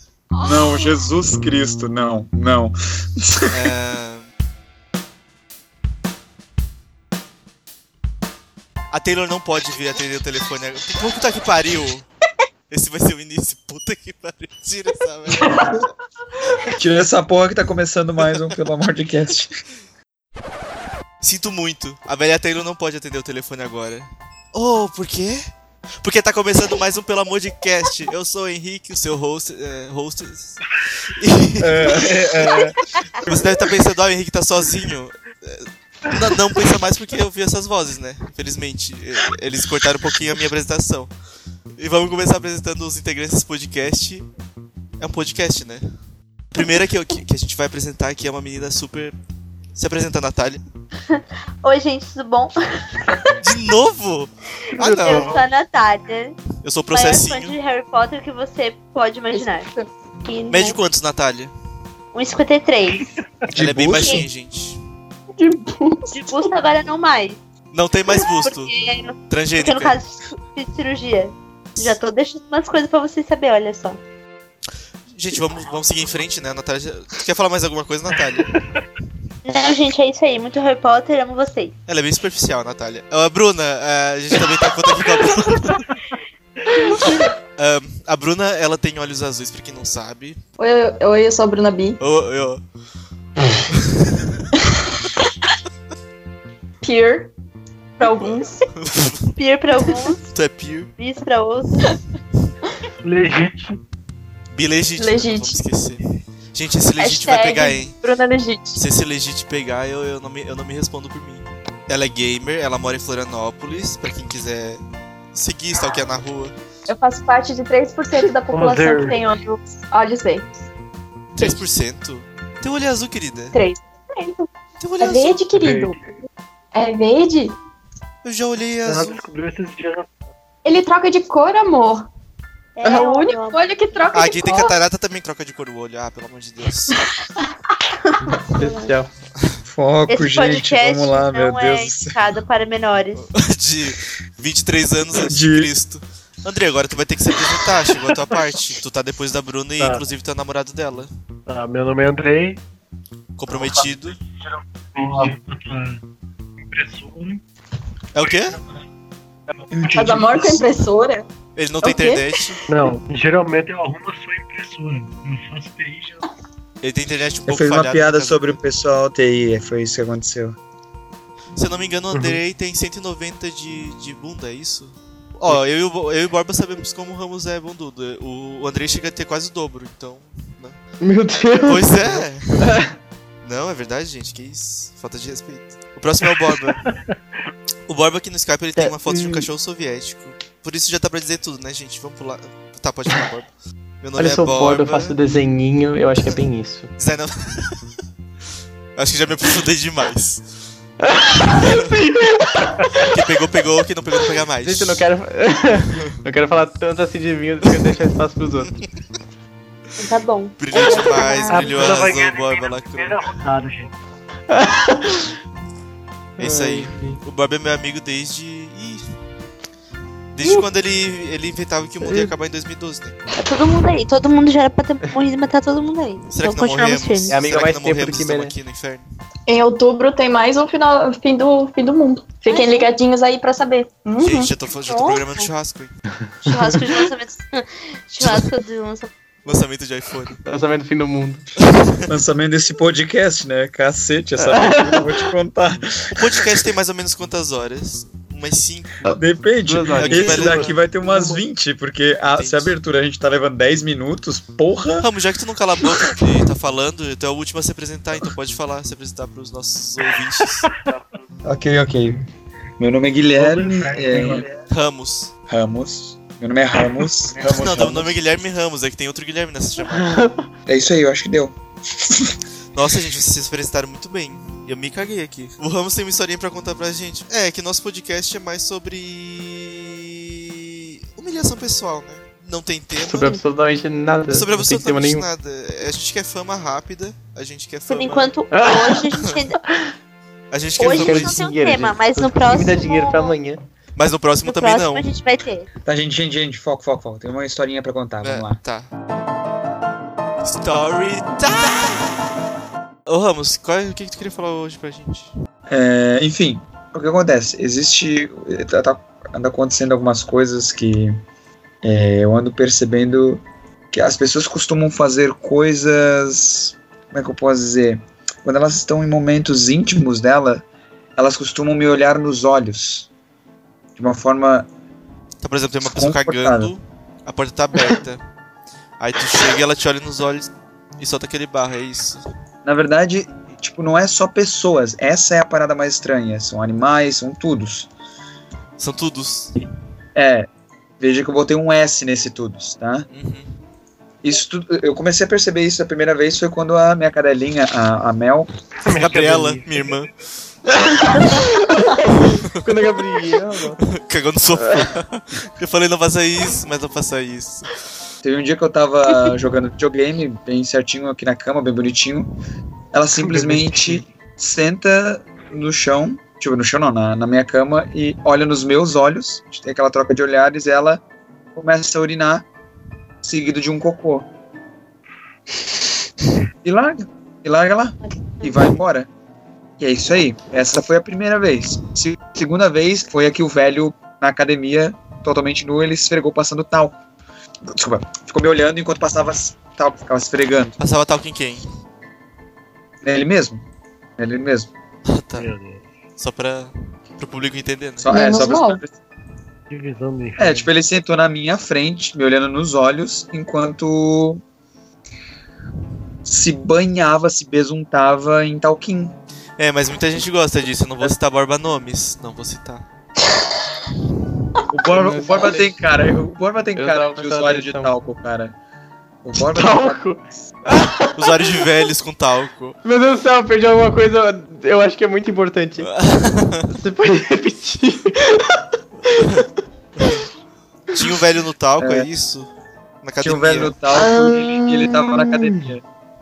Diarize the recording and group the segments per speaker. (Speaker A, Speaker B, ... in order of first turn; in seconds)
Speaker A: 0.3-0.9, 15.4-15.8, 59.3-59.9, 65.3-66.5, 90.6-92.0, 96.8-97.3, 98.0-98.7, 105.0-105.6, 107.0-108.8, 116.9-120.5, 123.5-124.5, 125.0-126.0, 126.8-127.5, 130.7-132.1, 132.8-134.8, 159.9-161.3, 161.8-162.5, 229.5-234.5, 398.1-398.8
Speaker B: 0.4-3.6, 16.6-19.5, 31.6-32.8, 63.5-64.3, 139.7-142.2, 145.2-145.7, 159.7-160.7, 167.5-170.6, 242.1-246.6, 249.1-255.1, 261.4-262.2, 262.8-264.5, 265.5-268.2, 270.7-272.4, 295.9-298.6, 305.7-311.2, 311.8-320.6, 321.2-323.1, 324.0-324.7, 325.8-326.7, 332.6-337.9, 340.1-340.5, 341.0-343.1, 344.2-348.5, 358.2-362.3, 362.9-371.0, 371.6-372.5, 373.2-374.3, 376.6-379.1, 379.8-387.0, 387.7-390.8, 393.0-393.6, 394.2-394.7, 398.0-398.9, 400.4-404.4, 406.2-409.2, 414.7-418.6, 419.2-420.0, 431.8-432.1, 433.2-435.8
Speaker C: 3.5-4.3, 8.9-12.1, 12.7-15.9, 18.2-18.6, 21.2-25.5, 26.0-41.1, 41.8-44.3, 45.0-45.8, 46.5-49.2, 49.8-50.6, 53.4-55.4, 56.6-57.5, 60.5-61.5, 63.6-64.8, 67.7-68.7, 69.3-70.0, 75.1-78.6, 81.9-85.9, 87.0-90.4, 92.0-92.6, 93.7-94.5, 98.1-99.3, 100.3-100.9, 104.5-108.0, 108.8-114.8, 115.3-116.5, 121.3-123.6, 124.8-125.4, 128.2-129.2, 134.1-137.0, 143.2-151.1, 153.4-154.2, 158.1-158.6, 161.6-162.6, 166.8-168.6, 171.6-180.8, 181.6-182.7, 183.4-186.9, 187.9-195.2, 197.0-197.8, 199.0-200.6, 201.5-202.0, 203.0-205.1, 207.7-207.9, 210.6-213.4, 216.4-219.0, 220.3-223.4, 226.3-229.1, 234.2-236.0, 238.2-238.5, 239.4-240.4, 241.6-242.1, 246.2-249.0, 249.9-250.8, 252.3-252.8, 255.0-260.7, 264.5-265.3, 267.4-270.1, 272.7-283.4, 284.3-288.3, 290.5-291.4, 294.0-295.1, 298.2-298.9, 300.4-302.1, 303.1-305.3, 325.4-328.2, 329.0-332.3, 338.8-339.6, 343.1-343.5, 348.9-350.1, 353.9-357.9, 390.8-391.6, 395.1-395.5, 396.2-398.2, 409.6-412.9, 421.1-422.8, 425.8-426.7, 429.2-429.5, 430.0-430.3, 430.9-432.5, 433.0-433.8
Speaker D: 51.1-52.5, 55.0-59.7, 60.2-60.8, 62.1-63.1, 66.1-67.4, 68.4-74.0, 79.5-81.8, 99.4-100.3, 101.0-101.9, 132.8-134.1, 138.2-138.9, 140.1-143.2, 210.0-211.7, 223.4-227.3, 232.5-232.9, 234.9-235.5, 236.4-239.1, 287.9-289.6, 290.8-293.4, 294.4-295.7
Speaker E: 54.8-55.5, 85.5-85.9, 86.8-87.1, 103.0-103.8, 118.5-119.2, 125.5-126.0, 128.8-130.1, 149.8-150.1, 151.5-152.6, 153.5-156.0, 156.6-157.4, 158.3-158.6, 162.7-166.2, 172.1-172.4, 211.5-213.9, 250.3-251.4, 260.6-261.0, 263.4-264.5, 348.8-350.1, 363.3-364.0, 395.4-395.9, 399.7-400.7
Speaker F: 138.5-139.1, 181.0-182.9, 188.8-189.5, 194.2-196.9, 201.0-203.2, 204.6-208.7, 214.5-215.3, 216.4-217.2, 222.0-222.3, 227.3-228.5, 240.4-241.4, 244.4-245.1, 249.0-250.6, 269.9-270.5, 283.0-285.3, 288.5-289.1, 290.8-293.6, 350.7-353.8, 354.6-354.9, 414.9-415.8, 416.8-417.9, 419.4-421.7, 422.8-425.9, 426.7-429.4, 434.8-435.8